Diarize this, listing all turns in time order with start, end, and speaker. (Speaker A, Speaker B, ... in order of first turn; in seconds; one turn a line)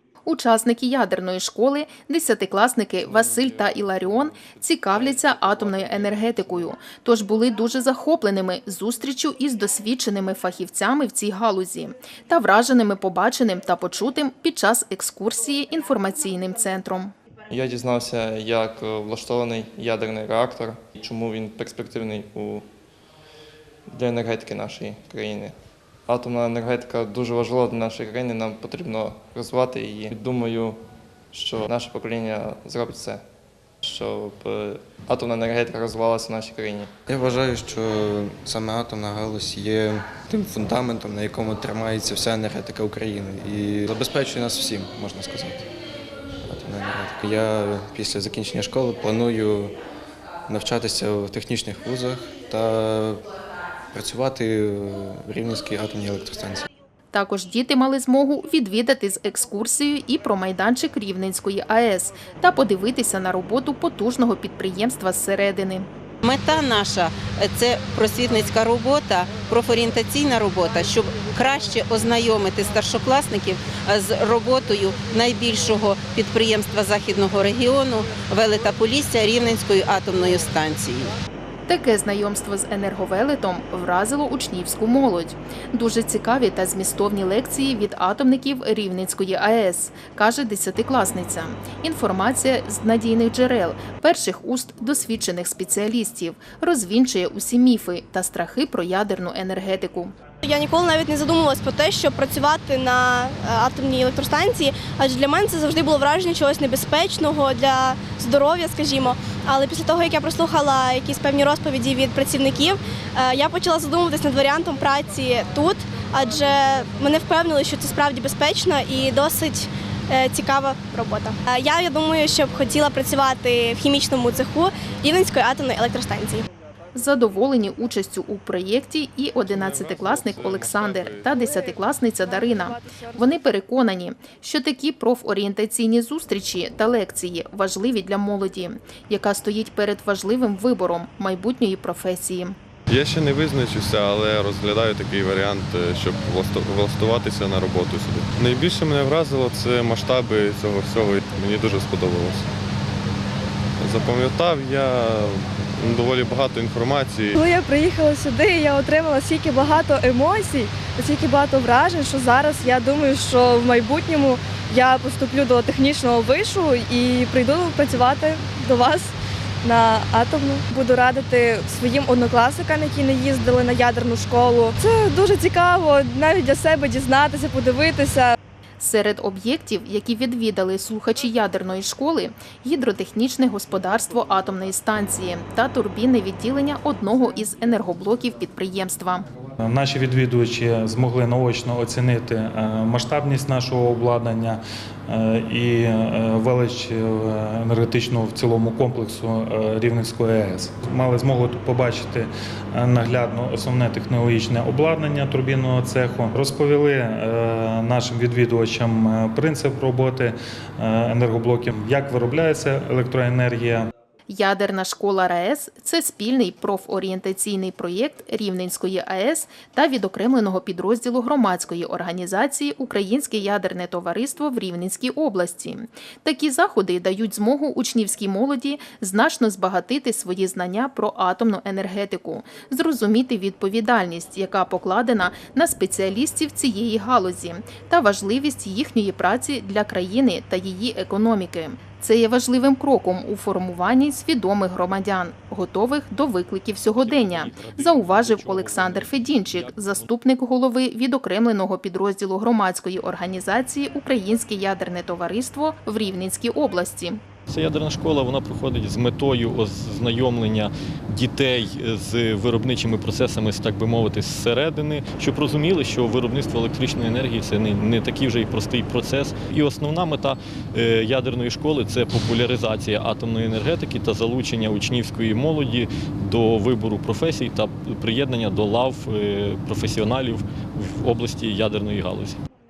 Speaker A: 0.2-17.1
Speaker B: 17.5-22.7
Speaker B: 23.9-25.5
Speaker B: 26.1-30.8
Speaker B: 31.3-33.2
Speaker B: 33.8-37.0
Speaker C: 37.0-45.7
Speaker C: 46.5-49.7
Speaker C: 50.5-53.3
Speaker C: 53.9-56.7
Speaker A: 57.1-65.8
Speaker D: 66.2-81.2
Speaker A: 81.7-100.1
Speaker E: 100.4-126.5
Speaker A: 126.9-142.6
Speaker F: 129.4-131.3
Speaker G: 131.3-133.4
Speaker F: 142.9-152.5
Speaker F: 153.8-157.3
Speaker G: 157.3-178.3
Speaker A: 178.8-189.2
Speaker H: 189.6-213.9
Speaker A: 214.3-257.2
Speaker I: 246.8-250.1
Speaker I: 257.5-282.4